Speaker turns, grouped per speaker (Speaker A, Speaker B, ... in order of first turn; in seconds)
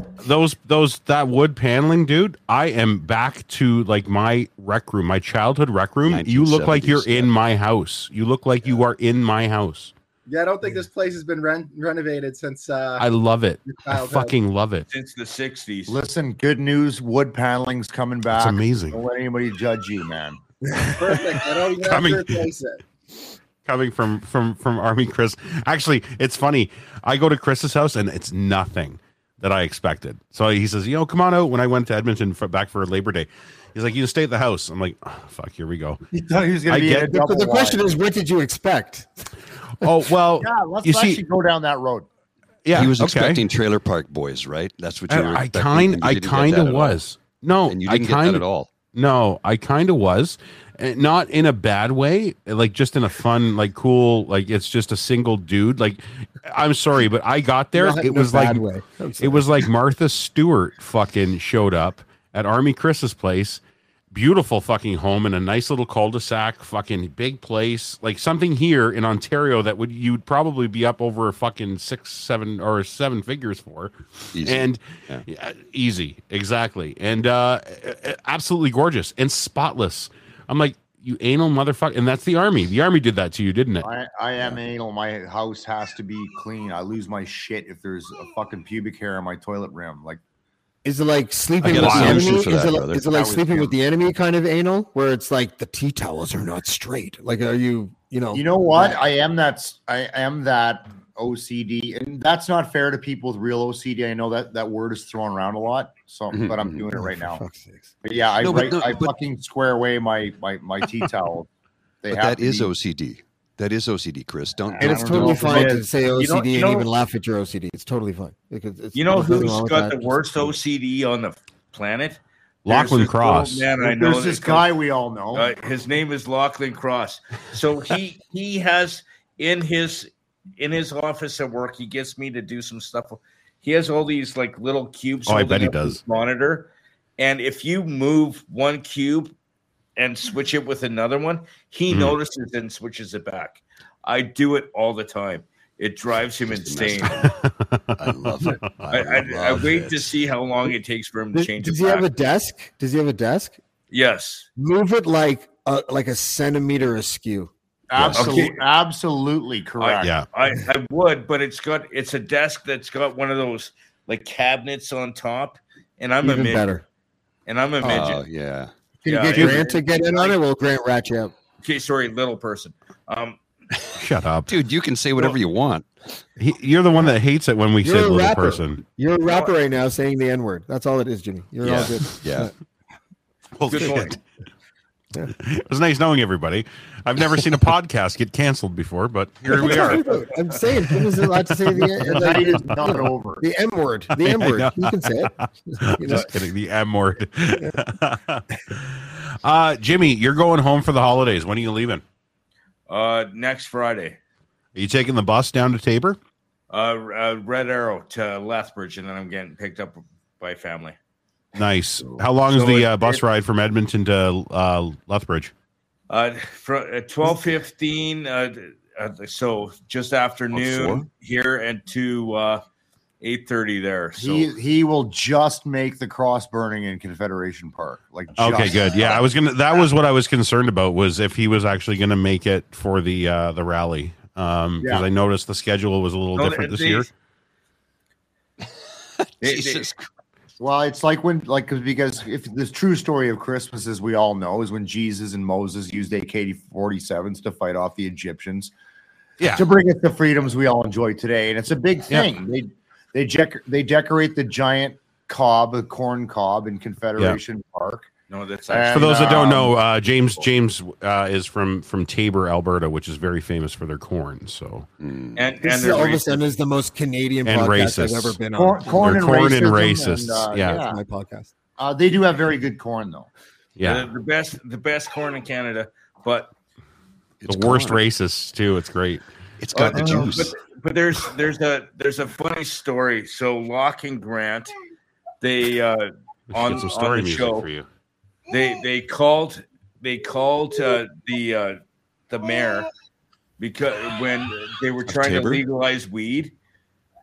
Speaker A: 0.2-9.9, 13.0-14.8, 18.4-19.0, 21.9-22.3, 23.7-36.0, 39.8-41.1, 42.7-43.4, 45.1-48.4, 49.0-58.6, 59.2-63.6, 64.1-73.9, 74.5-74.8, 75.3-83.8, 122.7-123.6, 135.3-136.0, 174.0-174.5, 176.4-178.8, 183.6-184.1, 185.6-190.0, 194.2-194.8, 196.1-198.4, 199.4-202.0, 204.8-206.2, 211.6-215.5, 228.4-237.1, 258.9-264.9, 267.5-268.4, 269.0-270.8, 273.8-274.1, 277.5-279.2, 286.5-287.9
Speaker B: 6.0-7.3, 42.7-47.0, 47.6-48.7, 74.3-75.2, 91.6-93.1, 106.3-106.8, 108.4-109.1, 112.1-115.6, 146.5-147.3, 148.0-150.1, 157.9-158.4, 167.8-168.7, 174.5-175.9, 181.6-182.5, 220.5-221.1, 239.2-240.0, 265.0-265.5, 277.4-278.1, 279.6-280.5, 295.1-295.6
Speaker C: 10.3-13.1, 13.6-14.4, 21.0-22.8
Speaker D: 14.9-15.9, 116.2-116.9, 119.0-124.7, 125.3-139.3, 140.0-147.2, 148.9-152.1, 153.9-154.5, 158.1-158.6, 159.8-166.7, 167.5-168.2, 169.1-170.4, 171.6-173.4, 179.3-179.5, 183.7-184.2, 189.8-190.2, 202.9-204.2, 206.7-211.0, 212.4-213.2, 216.1-222.6, 223.2-224.5, 236.4-237.1, 239.4-239.9, 258.3-259.6, 265.4-266.4, 273.8-276.5, 279.8-284.8, 285.4-287.7, 288.5-291.8, 292.3-292.9, 293.6-296.5
Speaker E: 15.9-20.4, 36.1-37.9, 40.4-42.1, 83.8-90.2, 93.1-93.7, 98.3-107.4, 108.0-111.5, 112.0-112.7, 114.8-115.9, 123.8-125.5, 157.9-160.2, 192.0-193.4, 224.2-229.3, 234.8-235.1, 240.6-248.7, 249.4-258.1, 258.7-259.8, 268.6-271.0, 271.8-273.3, 279.9-280.4
Speaker F: 37.1-39.1, 57.8-59.6, 90.8-99.0, 107.0-107.9, 114.8-120.6, 151.3-153.6, 154.6-157.5, 166.2-166.8, 167.8-168.1, 169.0-171.3, 177.8-182.5, 189.5-196.3, 265.6-269.2, 270.8-271.5